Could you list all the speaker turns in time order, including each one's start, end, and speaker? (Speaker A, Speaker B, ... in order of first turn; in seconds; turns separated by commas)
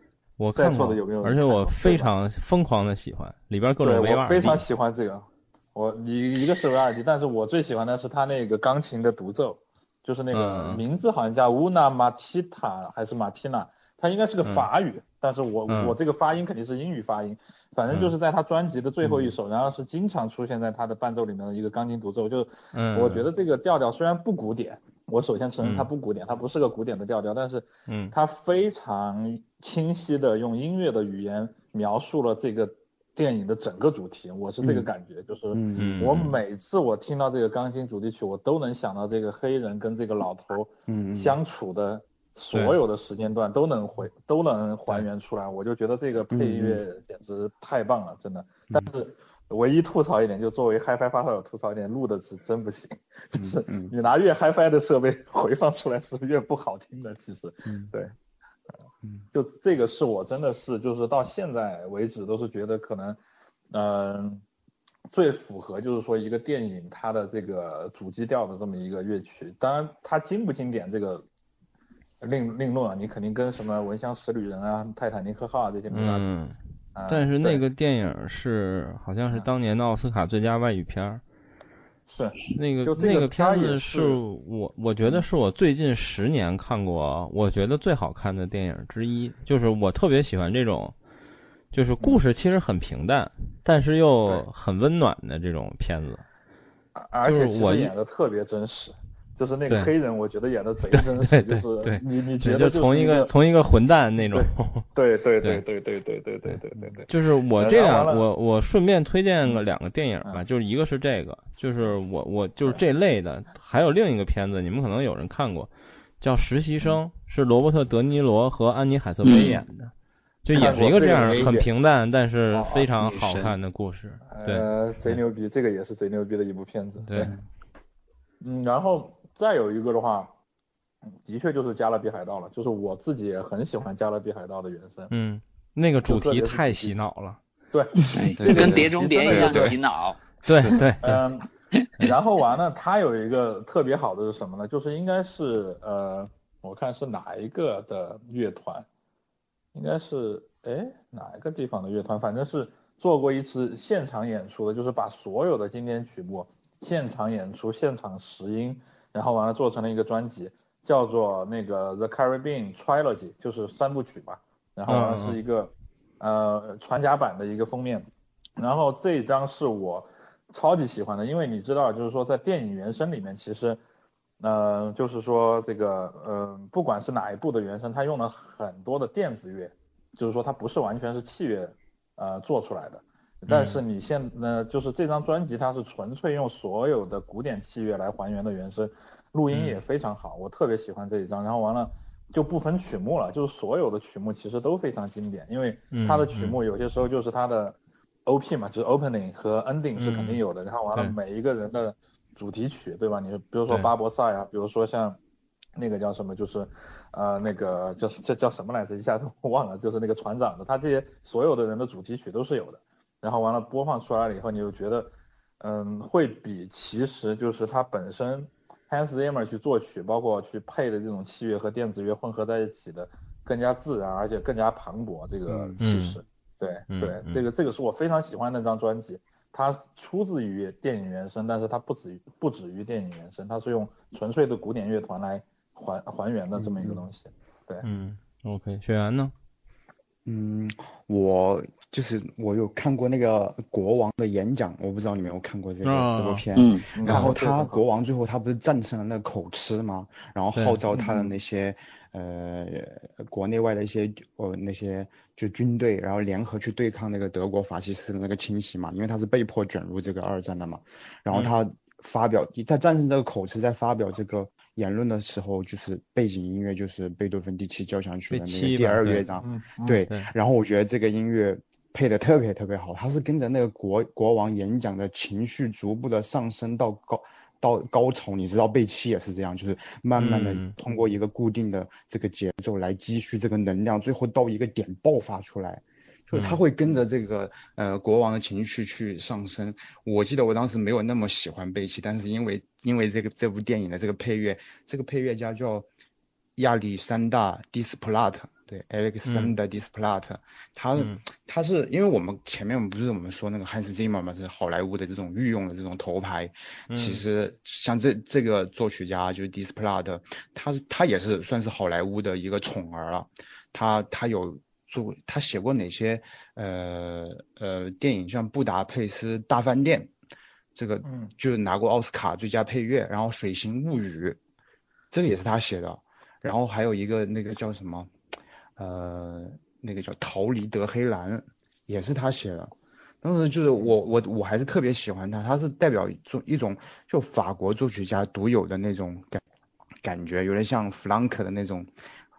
Speaker A: 0.4-4.6, Speaker B: 0.5-2.1, Speaker B: 3.8-58.1, Speaker A: 10.3-10.8, Speaker A: 15.7-15.9, Speaker A: 17.9-18.1, Speaker A: 22.7-23.3, Speaker A: 25.6-25.9, Speaker A: 27.9-28.1, Speaker C: 34.6-34.9, Speaker C: 35.5-36.0, Speaker A: 35.8-36.4, Speaker C: 40.9-41.4, Speaker A: 42.5-42.8, Speaker C: 46.3-46.8, Speaker C: 53.4-53.9, Speaker C: 57.6-57.9, Speaker B: 59.3-63.2, Speaker B: 63.7-64.4, Speaker B: 65.1-71.2, Speaker B: 72.2-76.3, Speaker A: 75.9-76.5, Speaker B: 76.9-77.6, Speaker A: 77.1-81.2, Speaker B: 82.1-84.2, Speaker A: 82.5-90.9, Speaker A: 91.7-96.2, Speaker B: 97.0-103.3, Speaker A: 97.2-97.9, Speaker A: 100.9-104.9, Speaker B: 104.3-108.2, Speaker A: 106.5-115.7, Speaker A: 116.2-119.9, Speaker D: 119.2-119.6, Speaker A: 120.4-125.2, Speaker B: 120.5-121.7, Speaker B: 122.5-122.9, Speaker C: 123.0-123.5, Speaker B: 124.3-127.3, Speaker B: 128.4-130.3, Speaker B: 131.1-135.1, Speaker A: 135.1-137.4, Speaker B: 136.1-137.0, Speaker B: 137.7-139.8, Speaker D: 138.1-140.2, Speaker C: 138.4-139.8, Speaker A: 140.4-141.2, Speaker C: 140.5-140.8, Speaker B: 141.0-148.8, Speaker B: 149.7-173.8, Speaker A: 164.9-165.4, Speaker B: 174.4-205.2, Speaker A: 183.5-183.8, Speaker A: 189.5-189.8, Speaker A: 195.9-196.6, Speaker A: 199.9-201.2, Speaker B: 205.8-237.9, Speaker C: 225.5-225.8, Speaker A: 225.8-226.2, Speaker A: 226.9-227.4, Speaker C: 236.6-237.0, Speaker A: 237.8-239.3, Speaker C: 240.2-295.9, Speaker A: 245.8-246.4, Speaker D: 246.6-246.9, Speaker B: 246.9-247.8, Speaker A: 247.1-247.3, Speaker B: 250.9-251.3, Speaker A: 268.3-269.2, Speaker B: 269.4-270.0, Speaker A: 280.2-280.7, Speaker A: 286.3-286.6, Speaker C: 296.6-320.1, Speaker A: 299.2-299.6, Speaker A: 300.9-301.2, Speaker A: 306.9-307.2, Speaker C: 320.7-324.4, Speaker B: 321.0-321.3, Speaker C: 325.1-328.1, Speaker C: 328.8-332.7, Speaker C: 333.2-339.4, Speaker C: 340.0-341.9